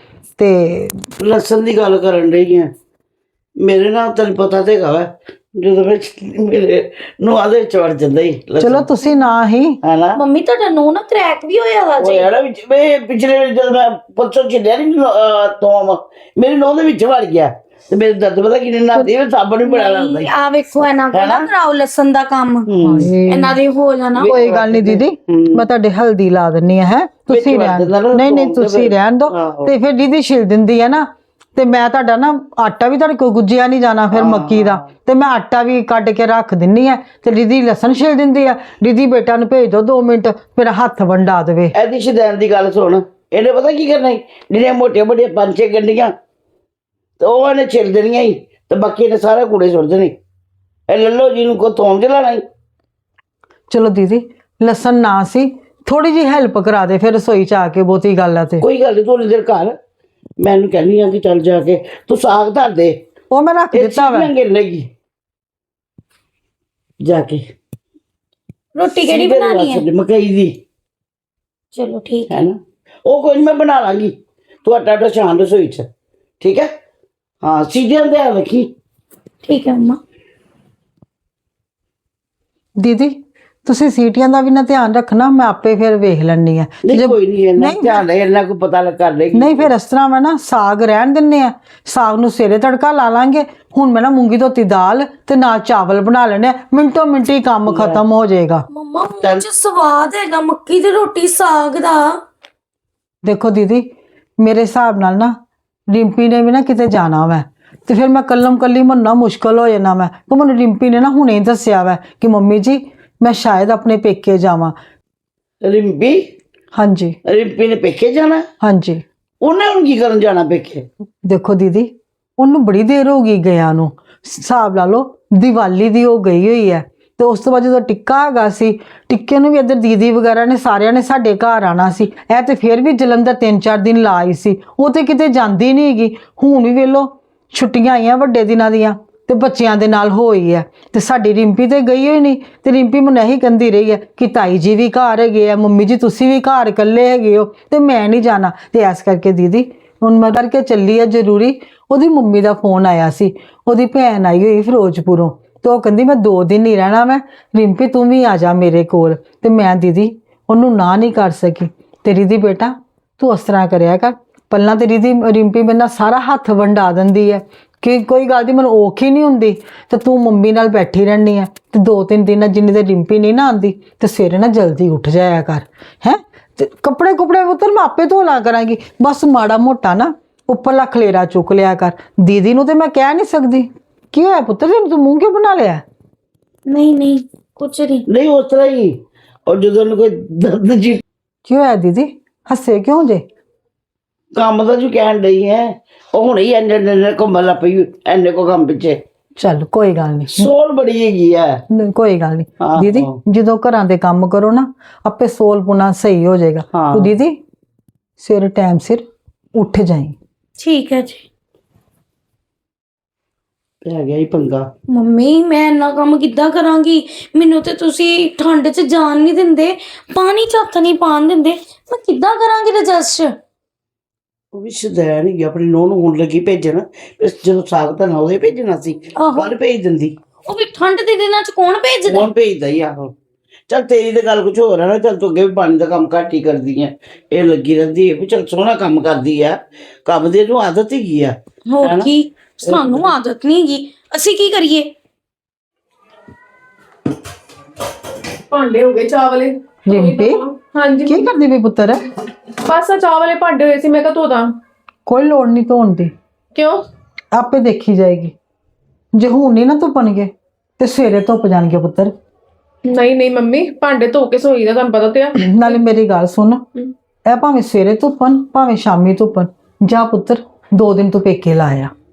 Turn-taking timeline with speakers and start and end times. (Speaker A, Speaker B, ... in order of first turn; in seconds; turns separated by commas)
Speaker A: 0.4-1.1, Speaker B: 1.2-2.7, Speaker B: 3.6-8.8, Speaker A: 8.6-9.8, Speaker B: 9.8-10.2, Speaker C: 10.2-12.3, Speaker B: 12.0-20.3, Speaker C: 19.6-22.7, Speaker B: 21.1-21.5, Speaker B: 22.7-23.1, Speaker A: 22.8-23.6, Speaker C: 23.3-24.3, Speaker B: 24.2-25.6, Speaker A: 24.2-41.7, Speaker B: 27.3-29.7, Speaker B: 34.1-34.9, Speaker B: 41.7-46.1, Speaker B: 47.2-50.1, Speaker B: 50.9-52.4, Speaker A: 53.7-58.6, Speaker B: 58.6-59.8, Speaker B: 60.4-63.0, Speaker A: 63.3-64.3, Speaker B: 63.7-64.9, Speaker B: 67.0-67.4, Speaker C: 68.8-69.8, Speaker B: 69.0-70.6, Speaker C: 71.7-72.3, Speaker B: 72.3-75.9, Speaker B: 76.4-76.7, Speaker B: 77.4-78.7, Speaker C: 79.4-80.0, Speaker A: 82.8-88.0, Speaker B: 86.8-89.7, Speaker A: 89.3-98.7, Speaker B: 97.7-98.0, Speaker C: 98.7-102.2, Speaker A: 103.2-105.4, Speaker A: 105.9-114.8, Speaker B: 115.6-116.3, Speaker A: 116.7-117.2, Speaker B: 117.2-118.5, Speaker A: 118.6-119.0, Speaker B: 119.4-120.9, Speaker A: 121.2-185.8, Speaker C: 186.7-188.0, Speaker B: 188.1-191.0, Speaker A: 191.4-193.2, Speaker B: 194.3-199.0, Speaker A: 199.4-200.5, Speaker B: 200.3-201.6, Speaker A: 201.7-207.4, Speaker B: 202.6-203.2, Speaker B: 206.7-207.1, Speaker A: 208.2-210.2, Speaker C: 210.6-211.2, Speaker B: 213.8-214.7, Speaker C: 214.9-223.3, Speaker B: 224.5-230.2, Speaker C: 229.2-229.5, Speaker C: 230.4-232.3, Speaker B: 232.1-233.1, Speaker B: 233.7-242.1, Speaker C: 241.7-244.9, Speaker B: 242.6-243.1, Speaker D: 248.5-251.3, Speaker A: 249.9-250.4, Speaker A: 251.1-252.0, Speaker D: 252.6-254.6, Speaker A: 255.1-256.1, Speaker D: 256.5-256.8, Speaker A: 257.3-258.3, Speaker A: 259.1-262.1, Speaker D: 262.8-265.6, Speaker A: 265.3-266.6, Speaker A: 267.2-271.9